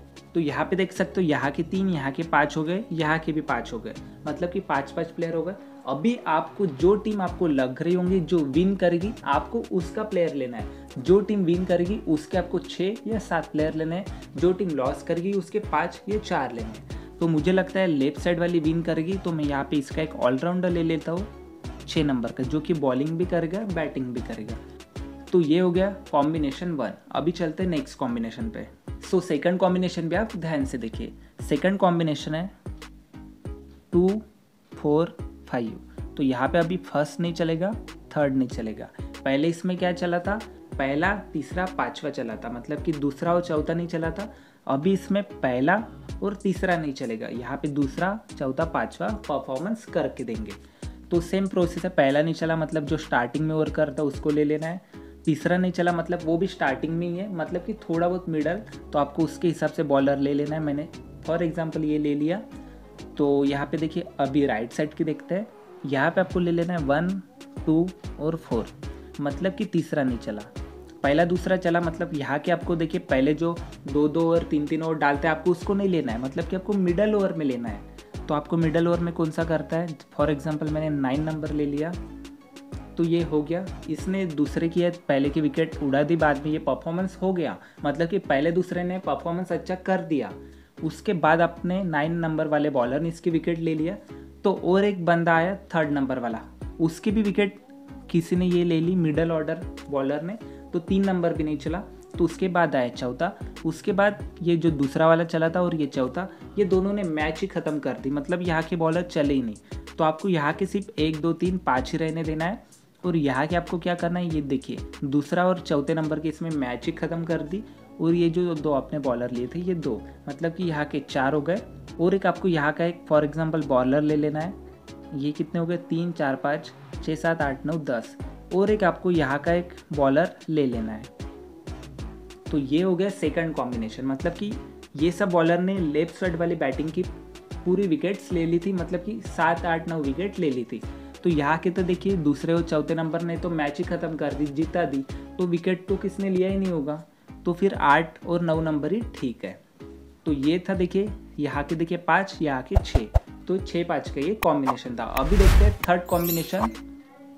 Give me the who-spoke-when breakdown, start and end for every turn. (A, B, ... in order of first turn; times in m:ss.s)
0:00.3-0:21.3 A
0:21.8-0:24.6 A
0:25.3-0:32.5 A
0:33.9-0:50.6 A
0:51.1-1:02.4 A
1:03.1-1:10.5 A
1:11.0-1:22.0 A
1:23.0-2:04.6 A
2:05.1-2:11.1 A
2:12.5-2:17.1 A
2:17.6-2:29.6 A
2:30.2-2:36.8 A